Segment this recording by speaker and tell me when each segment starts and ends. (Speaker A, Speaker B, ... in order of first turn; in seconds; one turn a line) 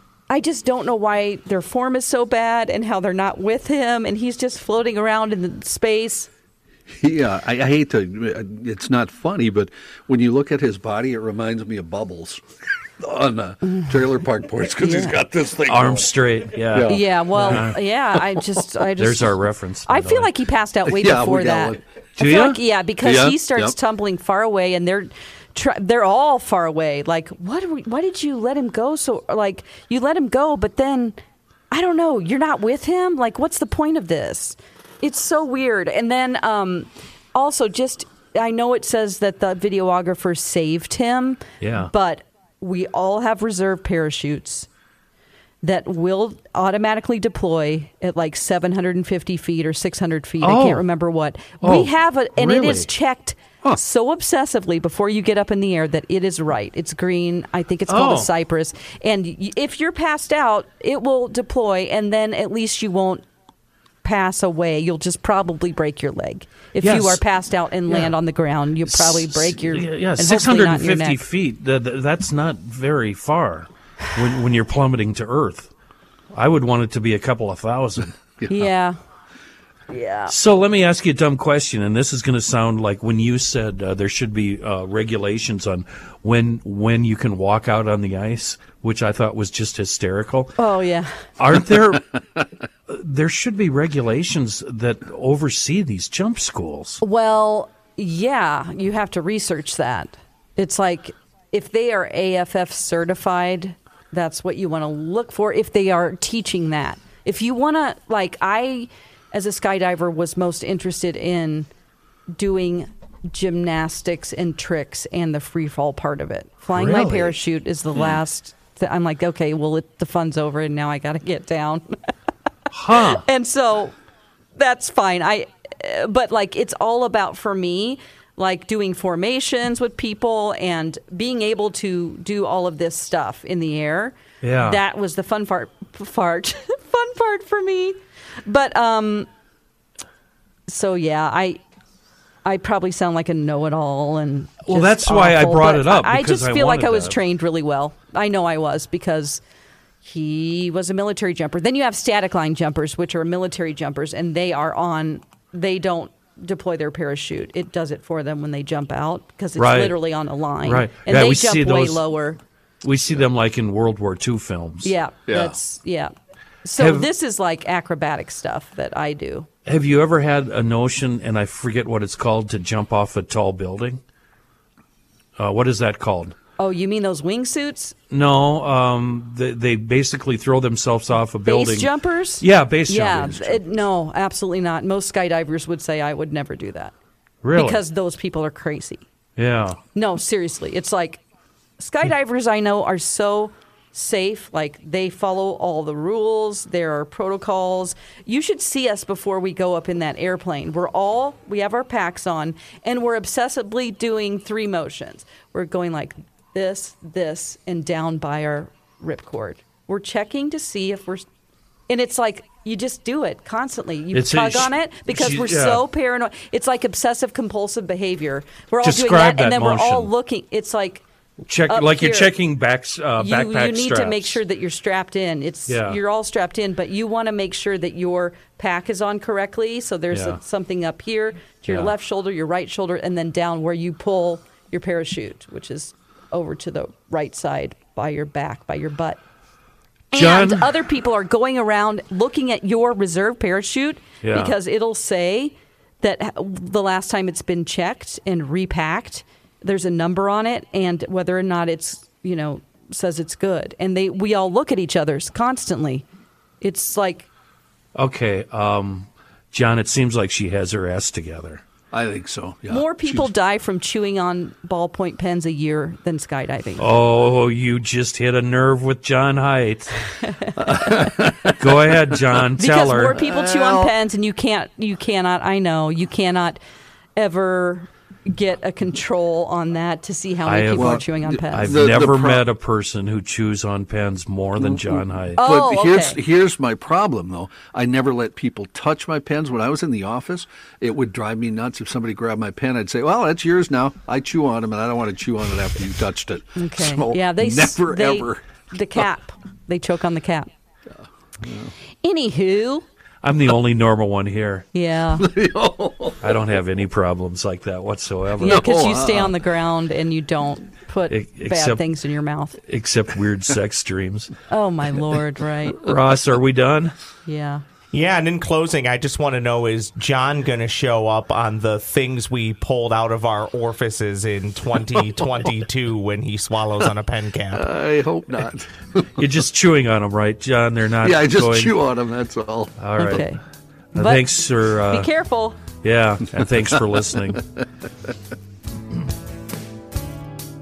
Speaker A: 0.3-6.3
Speaker B: 6.9-12.4
Speaker B: 13.0-16.1
Speaker A: 14.8-15.2
Speaker C: 15.7-17.8
Speaker B: 16.6-17.6
Speaker A: 16.9-31.2
Speaker C: 19.0-20.3
Speaker B: 20.9-21.8
Speaker C: 22.2-22.6
Speaker B: 23.0-23.7
Speaker A: 31.7-44.7
Speaker C: 41.6-41.9
Speaker A: 45.6-63.2
Speaker C: 50.4-50.8
Speaker C: 51.6-52.9
Speaker C: 57.9-58.3
Speaker A: 64.0-71.2
Speaker C: 66.8-67.2
Speaker C: 67.9-68.1
Speaker C: 68.9-75.7
Speaker C: 76.3-78.6
Speaker A: 78.5-79.0
Speaker A: 79.9-80.3
Speaker C: 80.3-90.6
Speaker A: 90.6-91.1
Speaker C: 91.4-92.2
Speaker C: 92.9-97.0
Speaker A: 97.0-111.7
Speaker A: 112.3-121.9
Speaker C: 116.7-117.3
Speaker C: 122.7-123.2
Speaker A: 122.9-124.0
Speaker A: 124.5-139.3
Speaker C: 134.4-134.8
Speaker A: 140.7-141.6
Speaker A: 142.4-149.4
Speaker C: 144.7-147.2
Speaker A: 150.0-162.4
Speaker C: 159.6-160.0
Speaker C: 160.6-162.0
Speaker C: 162.8-164.9
Speaker A: 164.8-166.1
Speaker B: 165.3-165.6
Speaker A: 166.6-169.5
Speaker C: 166.8-167.1
Speaker C: 169.7-174.0
Speaker C: 175.4-176.3
Speaker A: 176.6-177.9
Speaker C: 178.1-183.6
Speaker A: 181.4-186.9
Speaker C: 187.4-187.8
Speaker A: 187.5-189.0
Speaker C: 189.4-189.8
Speaker A: 189.9-191.2
Speaker A: 191.8-211.2
Speaker A: 211.9-221.1
Speaker C: 214.1-215.8
Speaker C: 218.8-220.1
Speaker C: 221.5-224.4
Speaker A: 221.7-222.3
Speaker A: 223.2-239.2
Speaker C: 225.7-226.0
Speaker C: 230.1-230.4
Speaker A: 240.1-256.0
Speaker C: 240.1-240.7
Speaker C: 244.2-244.5
Speaker A: 256.6-257.3
Speaker C: 257.9-261.6
Speaker B: 261.9-263.3
Speaker A: 262.7-266.9
Speaker C: 266.8-270.0
Speaker A: 270.2-270.9
Speaker B: 270.6-272.2
Speaker C: 271.5-273.2
Speaker A: 272.6-276.6
Speaker B: 273.1-273.9
Speaker A: 277.1-281.8
Speaker C: 280.4-285.4
Speaker B: 280.8-282.4
Speaker B: 284.6-298.4
Speaker A: 285.4-286.2
Speaker A: 296.6-300.5
Speaker B: 300.9-301.7
Speaker A: 302.0-302.8
Speaker C: 303.2-304.6
Speaker A: 304.7-305.3
Speaker B: 305.2-306.4
Speaker C: 306.2-308.6
Speaker B: 308.4-309.3
Speaker A: 308.4-312.6
Speaker C: 311.1-311.8
Speaker C: 312.6-314.3
Speaker A: 314.5-315.8
Speaker C: 315.7-316.9
Speaker A: 317.2-317.6
Speaker D: 317.9-327.7
Speaker B: 327.5-329.1
Speaker C: 329.1-331.7
Speaker B: 331.0-332.7
Speaker C: 332.8-333.3
Speaker A: 332.9-333.4
Speaker C: 333.9-335.1
Speaker A: 333.9-334.3
Speaker A: 334.9-335.6
Speaker C: 335.8-337.4
Speaker B: 336.7-337.0